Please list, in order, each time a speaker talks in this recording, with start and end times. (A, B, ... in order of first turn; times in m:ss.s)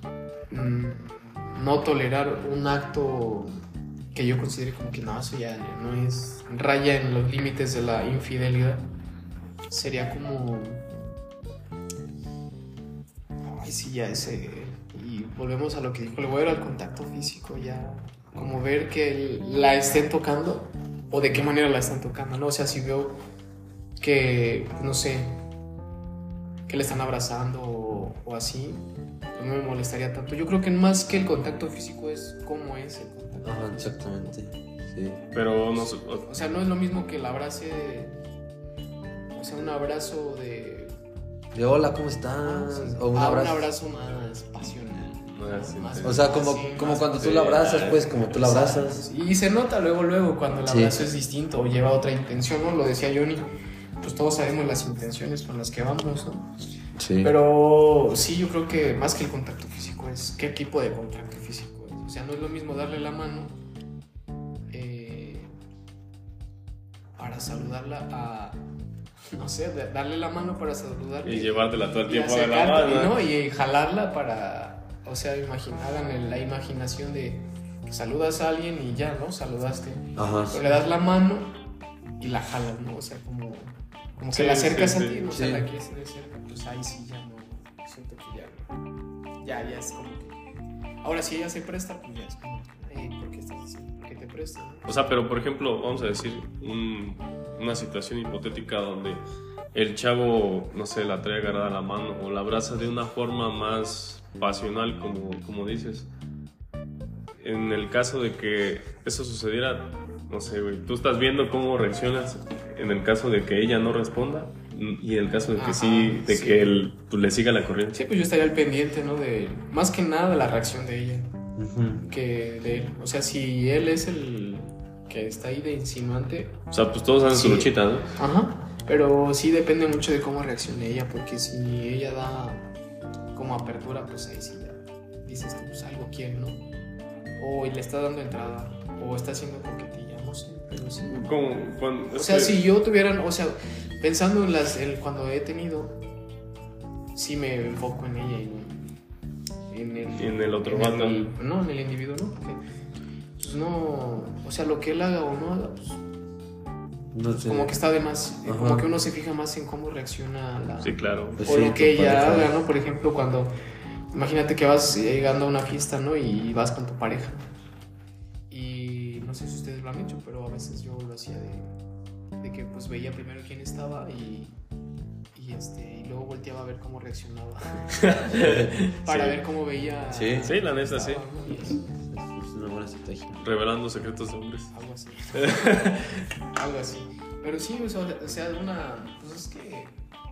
0:00.5-0:03.6 A
0:04.1-0:08.9 A
0:09.7-0:10.8 A
0:13.5-0:23.2 A
0:24.0-0:25.4 A
0:26.7-0:34.3 A
0:33.4-0:35.3 B
0:35.3-0:36.3 C
0:36.2-0:38.2 A
0:39.3-0:40.9 A
0:41.5-0:43.7 B
0:42.4-0:47.2 A
0:44.9-0:46.2 C
0:46.0-0:49.1 B
0:47.1-0:48.2 C
0:48.2-0:56.6 A
0:50.7-0:51.0 B
0:57.0-0:57.3 B
0:57.2-1:03.5 A
1:04.7-1:05.5 A
1:07.2-1:08.6 A
1:09.3-1:21.6 A
1:11.2-1:13.2 C
1:20.2-1:20.6 B
1:22.2-1:28.7 A
1:24.3-1:25.2 C
1:25.3-1:25.7 B
1:29.4-1:30.4 A
1:31.0-1:34.9 A
1:34.8-1:39.2 C
1:39.7-1:46.1 C
1:47.4-1:58.0 C
1:55.5-1:56.8 A
1:57.9-2:01.3 A
2:01.6-2:02.1 B
2:02.1-2:06.6 A
2:06.7-2:08.1 C
2:07.2-2:12.7 A
2:13.3-2:16.6 A
2:17.4-2:21.3 A
2:21.1-2:22.6 C
2:22.1-2:26.0 A
2:27.1-2:28.9 A
2:29.7-2:32.6 A
2:30.2-2:31.3 C
2:33.4-2:36.0 A
2:37.1-2:37.8 B
2:37.3-2:43.5 A
2:38.4-2:38.9 B
2:40.8-2:41.5 C
2:41.4-2:42.5 B
2:44.1-2:47.4 A
2:48.5-2:51.7 A
2:52.4-2:54.6 A
2:55.3-2:58.2 A
2:58.0-2:59.4 C
2:58.4-2:58.7 B
2:59.0-3:01.8 A
3:00.1-3:00.6 B
3:00.4-3:01.2 C
3:01.6-3:03.4 B
3:03.4-3:04.7 C
3:04.7-3:06.0 A
3:05.3-3:06.3 C
3:06.5-3:10.0 A